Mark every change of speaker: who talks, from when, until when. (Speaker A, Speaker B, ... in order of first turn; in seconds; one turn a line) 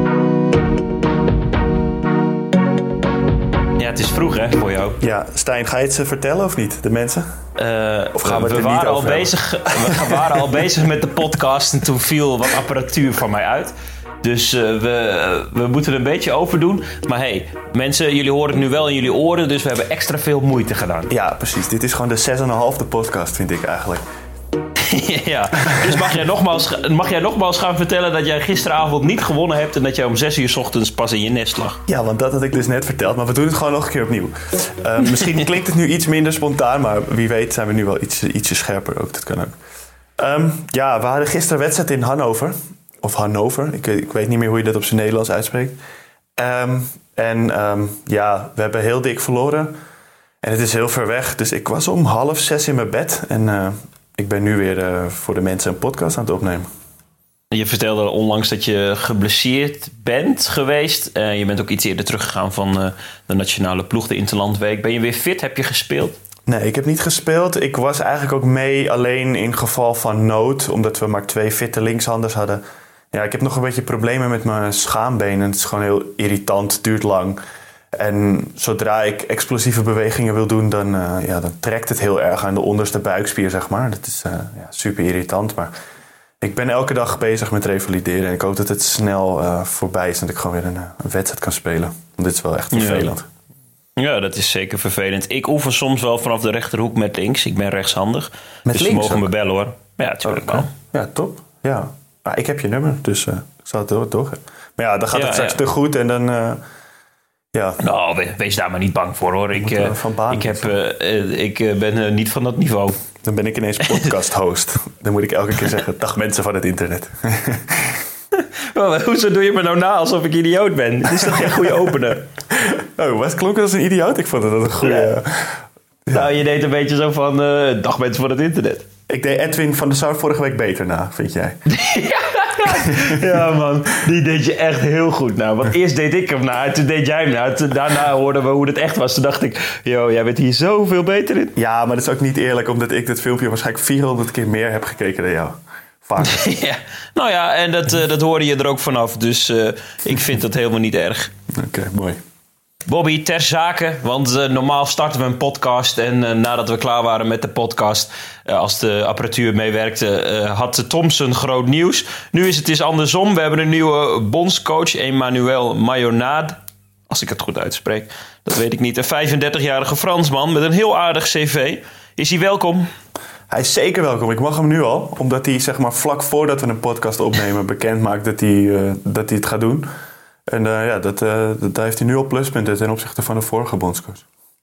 Speaker A: 3.8-5.0
Speaker B: 5.0-7.3
Speaker A: 7.6-21.1
Speaker B: 8.2-10.4
Speaker B: 21.1-24.0
Speaker A: 24.8-31.8
Speaker B: 25.6-26.0
Speaker B: 31.9-39.6
Speaker B: 40.2-45.8
Speaker B: 46.4-49.7
Speaker B: 50.4-56.7
Speaker A: 57.5-66.2
Speaker B: 66.5-72.6
Speaker B: 73.1-77.4
Speaker B: 77.9-85.7
Speaker B: 86.4-93.3
Speaker A: 92.7-93.1
Speaker A: 94.0-100.7
Speaker B: 98.7-99.3
Speaker B: 100.2-106.6
Speaker A: 105.1-105.6
Speaker B: 107.5-107.8
Speaker A: 107.8-113.0
Speaker B: 109.5-110.7
Speaker B: 113.2-118.0
Speaker A: 118.3-122.3
Speaker B: 121.2-121.9
Speaker B: 122.5-126.2
Speaker A: 124.8-125.2
Speaker A: 126.1-128.8
Speaker B: 129.1-131.6
Speaker A: 131.7-141.5
Speaker B: 132.7-133.2
Speaker B: 141.6-146.5
Speaker A: 146.2-151.3
Speaker B: 151.5-152.2
Speaker A: 152.9-166.6
Speaker A: 167.1-172.9
Speaker B: 173.5-179.9
Speaker B: 180.5-184.2